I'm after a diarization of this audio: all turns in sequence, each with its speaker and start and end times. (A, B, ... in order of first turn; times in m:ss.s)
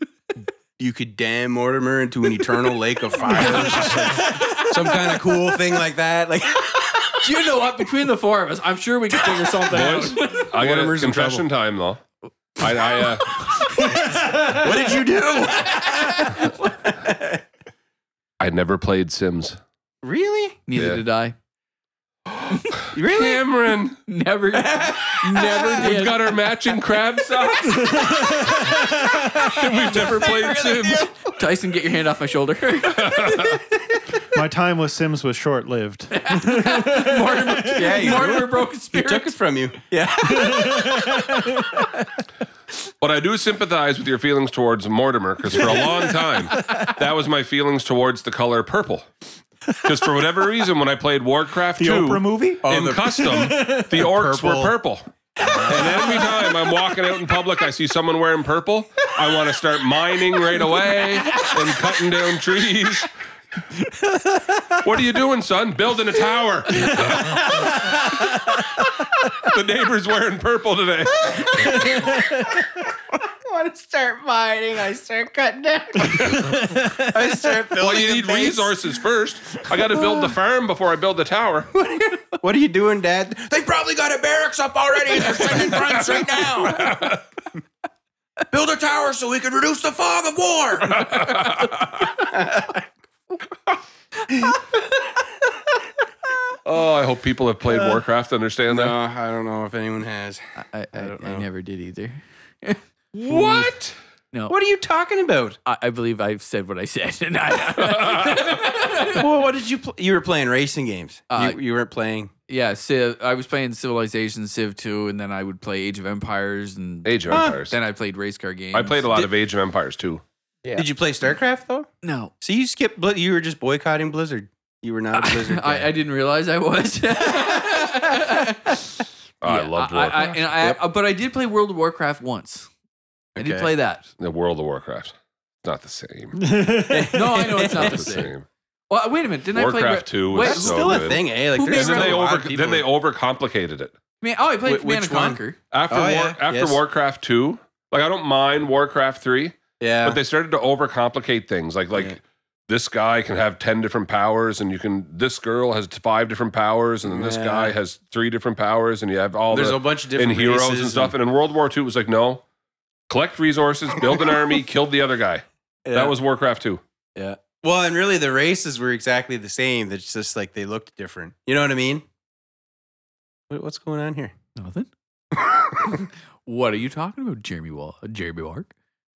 0:00.8-0:07.3 A
0:03.4-0:04.8 B
0:07.2-0:10.5 B
0:09.3-0:11.4 A
0:09.7-0:12.0 C
0:12.6-0:13.4 C
0:13.2-0:13.9 B
0:13.8-0:14.9 D
0:14.0-0:17.4 A
0:15.6-0:16.7 B
0:18.4-0:19.6 C
0:20.0-0:20.6 A
0:20.7-0:21.4 B
0:20.8-0:21.0 C
0:22.3-0:24.0 C
0:22.9-0:23.4 A
0:24.1-0:26.4 B
0:24.6-0:25.8 A
0:25.7-0:28.1 C
0:27.8-0:29.6 D
0:27.9-0:28.4 B
0:29.4-0:31.1 C
0:29.9-0:33.6 B
0:30.0-0:31.1 A
0:32.9-0:33.6 C
0:34.3-0:38.2 D
0:36.1-0:39.4 B
0:37.7-0:41.9 A
0:40.3-0:41.8 D
0:43.0-0:49.1 C
0:49.8-1:03.1 C
0:51.8-0:54.0 D
0:52.6-0:54.7 A
0:55.4-0:56.2 A
0:55.4-0:56.5 D
1:03.9-1:04.6 D
1:04.8-1:07.7 C
1:07.9-1:08.4 D
1:09.4-1:11.9 C
1:11.2-1:18.7 A
1:16.1-1:17.4 D
1:17.8-1:21.7 C
1:21.7-1:27.2 A
1:25.5-1:27.2 C
1:28.5-1:31.4 A
1:31.0-1:31.9 C
1:32.0-1:32.8 A
1:34.4-1:34.8 A
1:36.6-1:39.0 C
1:38.7-1:40.4 A
1:40.6-1:42.8 B
1:41.0-1:41.5 A
1:43.1-1:43.8 A
1:43.3-1:43.9 C
1:44.5-1:45.6 A
1:45.6-1:49.3 B
1:47.8-1:48.6 C
1:49.1-1:52.3 A
1:51.3-1:51.6 B
1:52.5-1:59.3 B
1:57.0-1:57.8 C
1:57.3-1:57.6 A
1:58.7-2:00.2 C
2:00.7-2:01.9 A
2:02.0-2:02.3 B
2:02.4-2:05.9 A
2:05.1-2:12.7 B
2:09.4-2:10.4 C
2:10.6-2:10.8 A
2:13.4-2:13.7 A
2:13.4-2:14.0 B
2:14.2-2:16.4 C
2:16.4-2:17.5 D
2:16.9-2:18.2 A
2:17.1-2:18.3 B
2:17.7-2:18.5 C
2:18.9-2:22.2 B
2:19.5-2:23.9 C
2:20.3-2:22.9 A
2:24.2-2:25.6 B
2:24.7-2:26.8 A
2:25.7-2:42.4 C
2:29.8-2:30.2 A
2:37.1-2:37.7 A
2:39.5-2:41.1 A
2:43.1-2:46.8 C
2:45.8-2:46.1 A
2:47.2-2:52.0 A
2:53.5-2:54.3 A
2:54.6-2:54.9 B
2:55.4-2:56.0 A
2:56.5-2:58.7 B